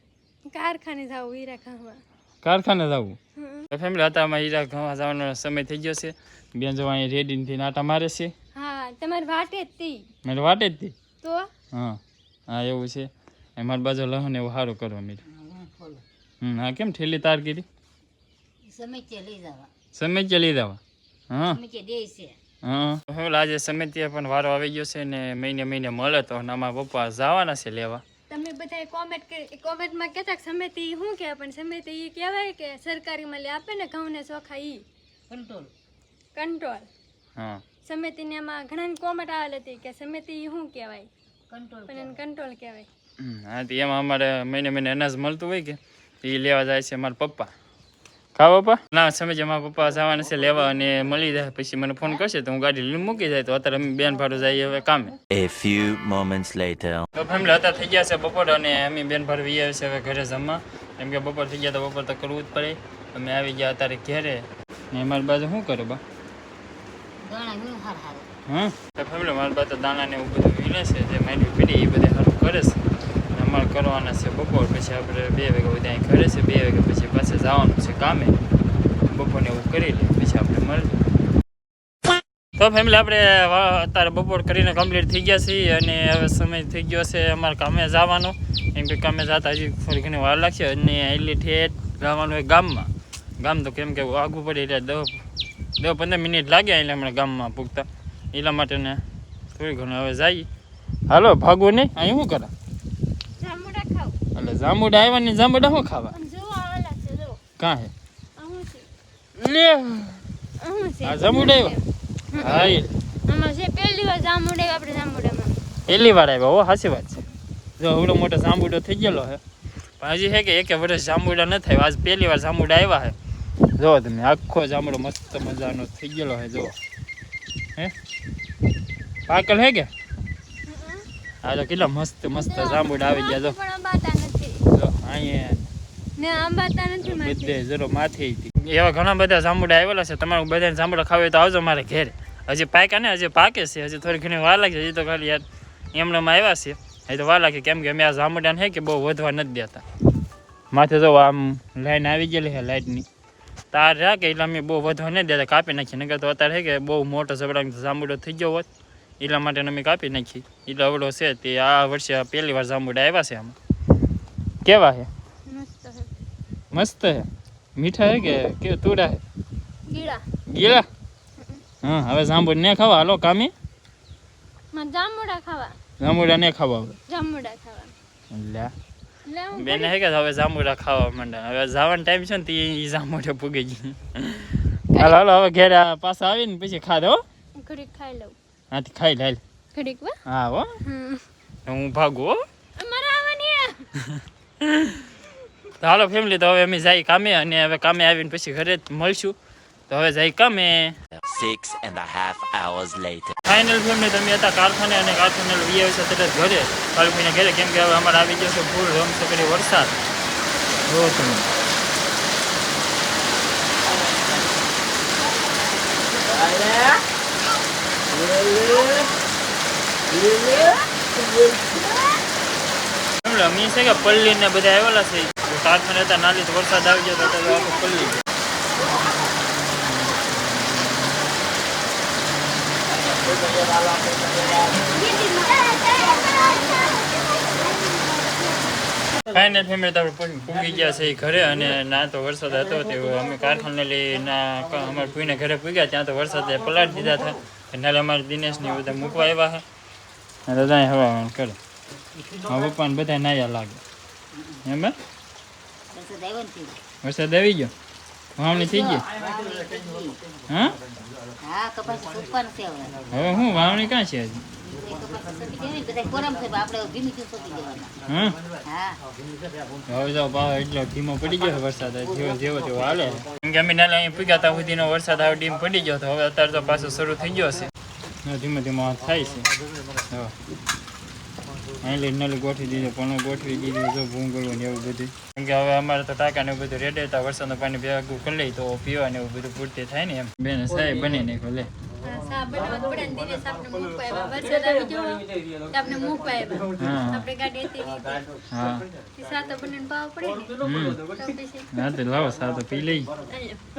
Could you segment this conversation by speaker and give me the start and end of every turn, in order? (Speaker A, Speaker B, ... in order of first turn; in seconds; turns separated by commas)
Speaker A: 0.5-2.0, Speaker B: 2.4-3.2, Speaker A: 3.4-3.6, Speaker B: 3.7-8.3, Speaker A: 8.6-10.1, Speaker B: 10.2-11.0, Speaker A: 11.2-11.5, Speaker B: 11.7-15.2, Speaker C: 15.3-16.0, Speaker B: 16.4-17.6, Speaker C: 18.7-19.7, Speaker B: 19.9-20.8, Speaker B: 21.3-21.6, Speaker C: 21.5-22.4, Speaker B: 22.6-28.0, Speaker A: 28.3-34.8, Speaker C: 35.3-35.7, Speaker A: 36.3-36.9, Speaker B: 37.4-37.6, Speaker A: 37.8-41.1, Speaker C: 41.5-42.2, Speaker A: 41.9-42.9, Speaker B: 43.2-47.5, Speaker B: 48.4-55.2, Speaker D: 55.3-57.1, Speaker B: 57.1-66.0, Speaker C: 67.2-68.3, Speaker B: 68.5-72.8, Speaker B: 73.3-78.4, Speaker B: 79.1-81.0, Speaker B: 82.6-95.2, Speaker B: 95.8-99.0, Speaker B: 99.5-100.5, Speaker B: 101.1-102.5, Speaker A: 103.4-104.2, Speaker B: 104.3-106.2, Speaker A: 106.1-107.4, Speaker B: 107.6-107.9, Speaker A: 108.4-108.9, Speaker B: 109.4-110.2, Speaker A: 110.6-115.6, Speaker B: 111.0-111.7, Speaker B: 112.4-112.9, Speaker B: 115.9-117.2, Speaker B: 117.8-119.4, Speaker B: 120.0-123.1, Speaker B: 123.8-126.7, Speaker B: 129.3-129.9, Speaker A: 130.7-131.1, Speaker B: 131.4-133.6, Speaker A: 132.3-134.7, Speaker B: 134.7-135.7, Speaker A: 136.2-137.6, Speaker B: 137.0-149.8, Speaker B: 150.7-153.1, Speaker B: 153.7-158.7, Speaker B: 159.2-163.6, Speaker B: 164.6-165.1, Speaker A: 165.5-166.1, Speaker B: 166.7-169.2, Speaker A: 169.9-170.2, Speaker B: 170.5-170.9, Speaker B: 171.8-173.5, Speaker A: 174.7-175.8, Speaker B: 176.0-177.0, Speaker A: 177.1-177.9, Speaker B: 178.3-178.7, Speaker A: 179.3-179.9, Speaker B: 179.5-187.2, Speaker A: 187.6-188.3, Speaker B: 188.7-189.4, Speaker A: 189.7-190.2, Speaker B: 190.2-190.8, Speaker A: 190.8-191.2, Speaker B: 191.7-192.4, Speaker A: 192.8-193.9, Speaker B: 194.0-195.1, Speaker B: 195.8-199.4, Speaker B: 199.9-201.0, Speaker D: 201.3-203.4, Speaker B: 203.4-209.9, Speaker B: 210.9-211.4, Speaker B: 223.2-228.2, Speaker A: 235.0-238.3, Speaker B: 239.2-249.6, Speaker B: 250.5-251.6, Speaker B: 252.4-253.8, Speaker B: 254.6-254.9, Speaker C: 255.9-256.8, Speaker B: 257.0-257.7, Speaker B: 258.4-259.1, Speaker C: 258.5-260.2, Speaker B: 260.5-260.8, Speaker C: 261.4-262.9, Speaker B: 263.1-264.4, Speaker C: 264.6-267.9, Speaker B: 268.1-268.4, Speaker C: 268.7-269.0, Speaker B: 269.9-277.7, Speaker B: 278.2-279.5, Speaker B: 281.8-291.7, Speaker A: 292.0-298.3, Speaker B: 296.7-297.3, Speaker B: 298.5-298.8, Speaker A: 299.0-301.9, Speaker B: 300.6-301.1, Speaker B: 301.7-303.1, Speaker A: 303.3-303.6